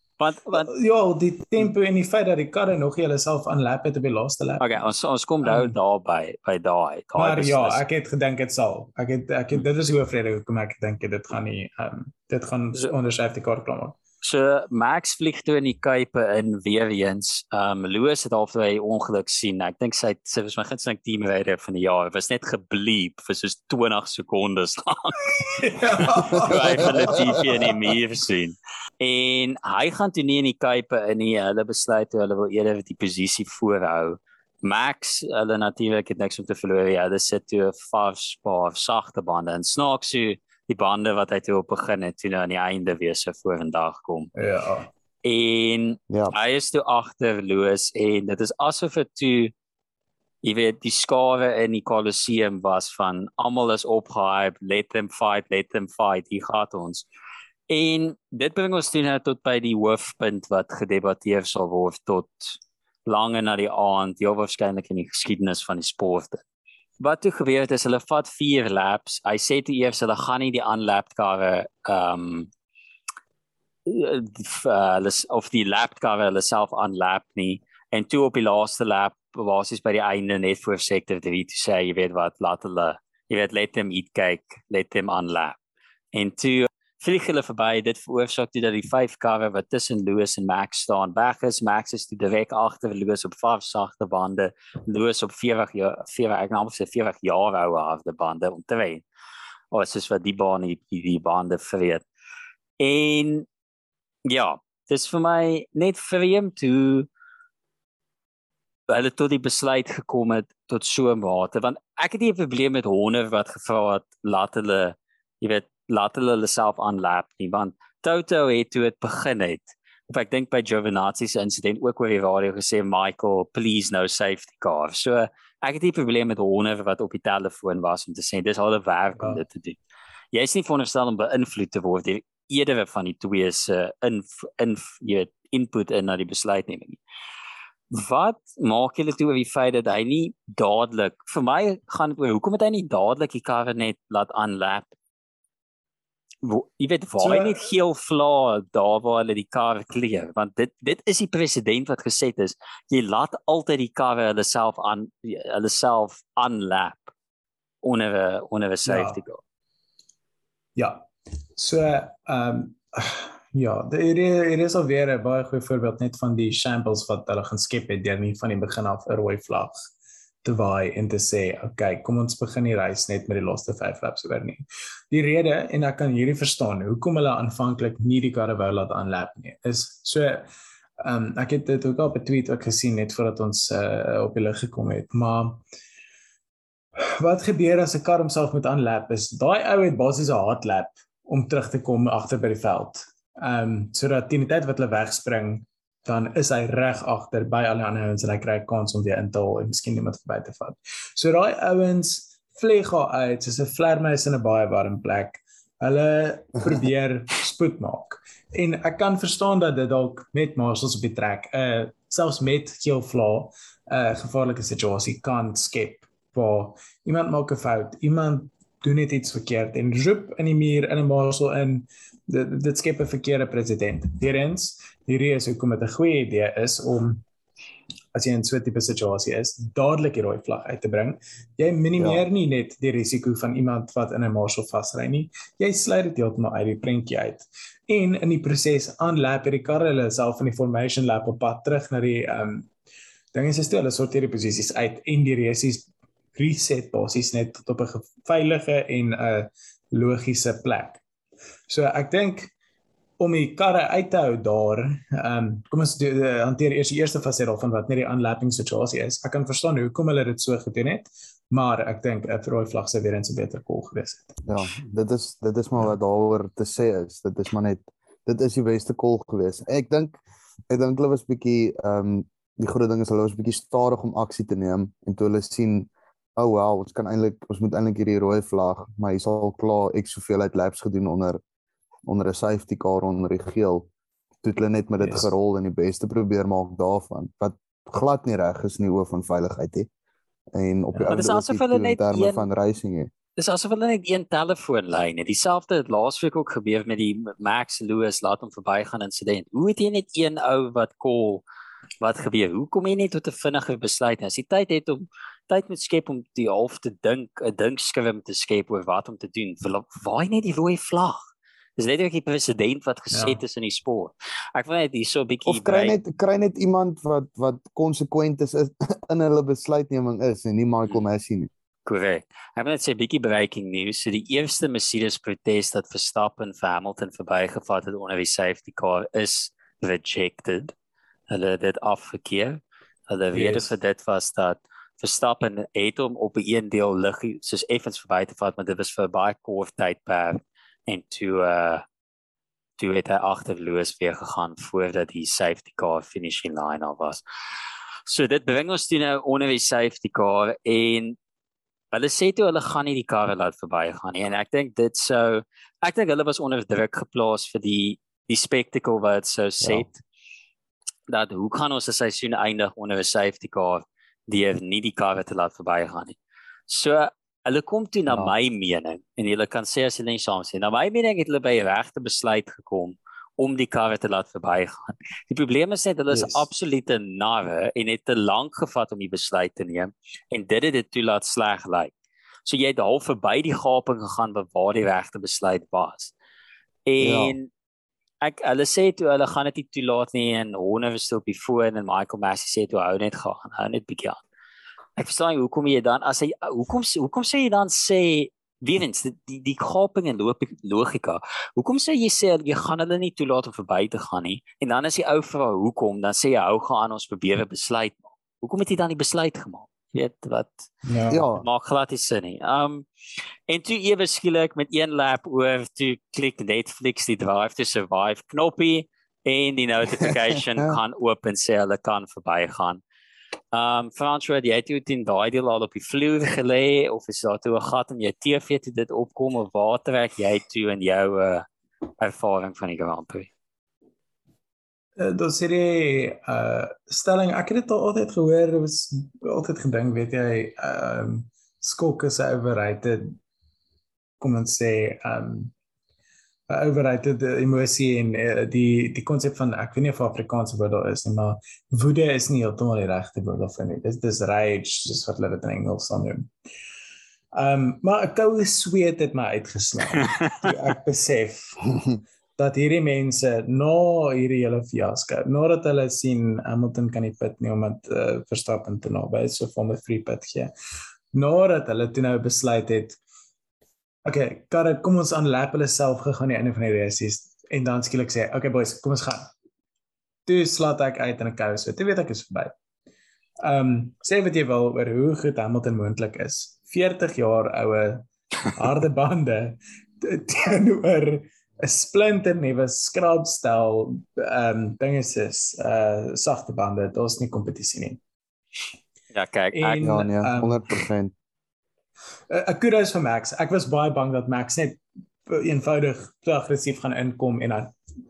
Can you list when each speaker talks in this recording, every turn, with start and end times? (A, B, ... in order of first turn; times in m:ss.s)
0:00.2-0:00.7 A
0:00.5-0:04.7 B
0:04.6-0:07.8 A
0:05.4-0:05.8 B
0:07.2-0:14.0 B
0:14.2-0:44.3 A
0:25.6-0:27.7 B
0:26.6-0:27.3 C
0:44.4-0:44.9 B
0:45.2-0:49.5 A
0:50.4-0:57.0 A
0:57.7-1:06.4 A
1:07.0-1:12.5 A
1:13.8-1:25.6 A
1:26.1-1:39.0 A
1:39.7-1:42.0 A
1:42.8-1:43.5 A
1:44.2-1:47.1 A
1:48.9-2:09.8 A
2:10.3-2:17.0 A
2:17.9-2:24.9 A
2:26.4-2:37.1 A
2:27.2-2:27.7 B
2:37.8-2:39.4 A
2:38.8-2:39.2 B
2:40.8-2:49.8 B
2:50.4-3:00.5 B
3:01.0-3:05.6 B
3:07.0-3:47.2 B
3:48.1-4:02.7 B
3:52.0-3:52.2 C
4:03.3-4:11.0 B
4:11.7-4:12.5 B
4:13.2-4:24.4 B
4:24.5-4:41.4 C
4:42.0-4:43.9 C
4:44.4-4:49.9 C
4:45.0-4:45.3 B
4:50.5-4:53.1 C
4:50.9-4:51.2 B
4:51.1-4:52.5 A
4:53.4-5:01.4 A
5:02.0-5:11.2 A
5:11.8-5:16.0 A
5:13.1-5:13.4 B
5:15.4-5:21.5 C
5:21.8-5:30.7 A
5:31.3-5:41.8 A
5:33.3-5:33.7 B
5:42.8-5:47.2 A
5:48.0-5:51.2 A
5:51.9-6:00.0 A
6:01.1-6:21.9 A
6:16.1-6:16.4 B
6:22.4-6:26.1 A
6:26.8-6:27.5 A
6:27.0-6:27.4 C
6:28.2-6:34.2 A
6:35.0-6:52.8 A
6:50.8-6:51.2 B
6:51.1-6:51.4 C
6:53.5-7:02.8 A
7:03.5-7:11.4 A
7:12.0-7:13.3 A
7:15.0-7:23.2 B
7:24.2-7:25.5 B
7:26.5-7:36.3 B
7:37.3-7:41.8 B
7:40.0-7:40.4 A
7:42.4-7:50.5 B
7:51.1-7:53.0 B
7:54.0-7:59.3 B
8:00.3-8:02.5 B
8:03.4-8:18.0 B
8:19.1-8:19.9 A
8:19.5-8:20.8 B
8:19.8-8:21.1 C
8:22.3-8:27.7 B